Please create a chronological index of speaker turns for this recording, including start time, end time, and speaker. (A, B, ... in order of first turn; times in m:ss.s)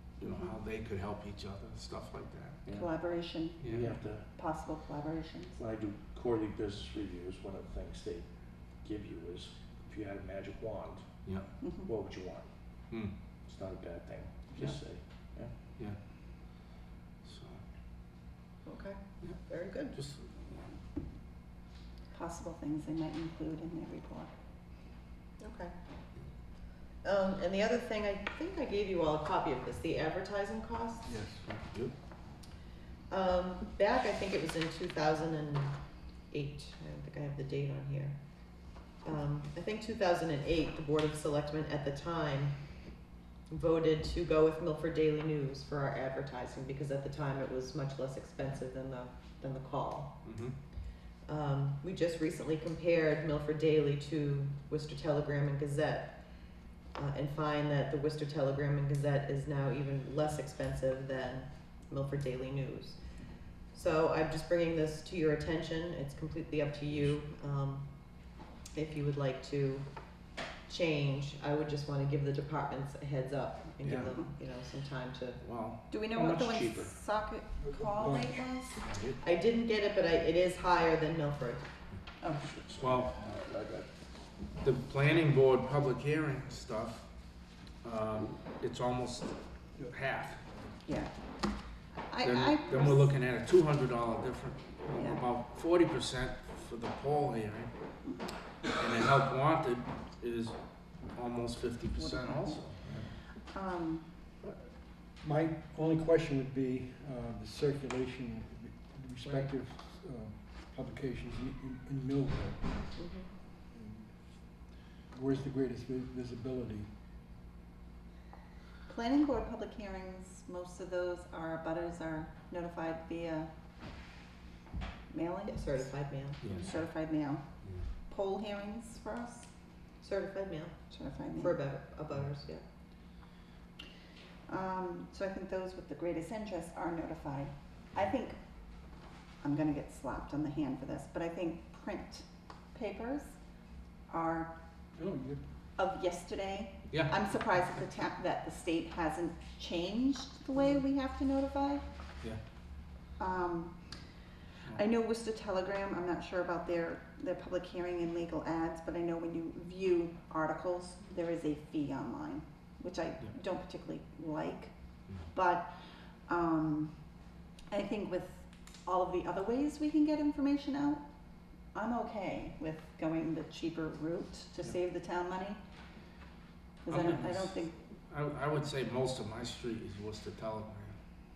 0:00.2-0:02.6 A
0:00.2-0:00.5 B
0:02.6-0:02.9 C
0:02.7-0:05.6 B
0:03.6-0:04.3 C
0:05.6-0:08.3 C
0:08.8-0:11.0 C
0:11.6-0:11.9 B
0:11.8-0:12.5 C
0:13.5-0:15.5 C
0:14.5-0:14.8 D
0:17.2-0:17.6 A
0:18.6-0:20.0 E
0:19.9-0:20.3 A
0:22.1-0:24.3 B
0:25.4-0:25.8 E
0:27.0-0:31.1 E
0:31.0-0:31.4 D
0:31.5-0:31.9 A
0:33.1-0:35.8 E
0:36.3-0:38.2 E
0:39.0-0:42.5 E
0:43.5-0:50.2 E
0:50.2-0:50.5 A
0:51.2-0:56.2 E
0:57.0-1:03.0 E
1:03.7-1:07.9 E
1:08.7-1:09.8 E
1:10.7-1:15.4 E
1:13.8-1:14.1 A
1:15.4-1:15.8 A
1:15.9-1:18.8 B
1:16.1-1:17.0 C
1:17.6-1:18.4 D
1:19.2-1:21.7 E
1:22.2-1:22.5 B
1:22.4-1:23.9 C
1:22.8-1:23.1 A
1:24.6-1:27.1 A
1:27.8-1:29.3 A
1:29.9-1:30.4 A
1:30.9-1:31.1 B
1:32.0-1:33.1 B
1:32.2-1:37.7 A
1:34.9-1:35.2 B
1:38.8-1:40.6 A
1:41.1-1:43.1 A
1:41.9-1:42.7 B
1:43.5-1:44.1 B
1:45.2-1:52.9 D
1:49.2-1:49.5 A
1:53.0-1:53.3 E
1:53.7-1:54.2 D
1:55.1-1:56.9 D
1:58.9-2:03.5 B
2:05.1-2:07.4 B
2:05.5-2:06.7 E
2:06.4-2:06.8 A
2:08.1-2:09.5 B
2:10.0-2:10.8 E
2:10.9-2:11.7 B
2:11.4-2:12.6 E
2:14.5-2:18.4 B
2:19.4-2:23.4 B
2:24.1-2:24.5 B
2:25.0-2:25.4 D
2:25.8-2:31.8 B
2:26.9-2:27.2 A
2:33.2-2:33.8 B
2:34.7-2:44.7 B
2:45.2-2:46.9 B
2:47.7-2:51.0 B
2:51.7-2:55.6 B
2:56.8-2:57.7 B
2:56.9-3:01.0 A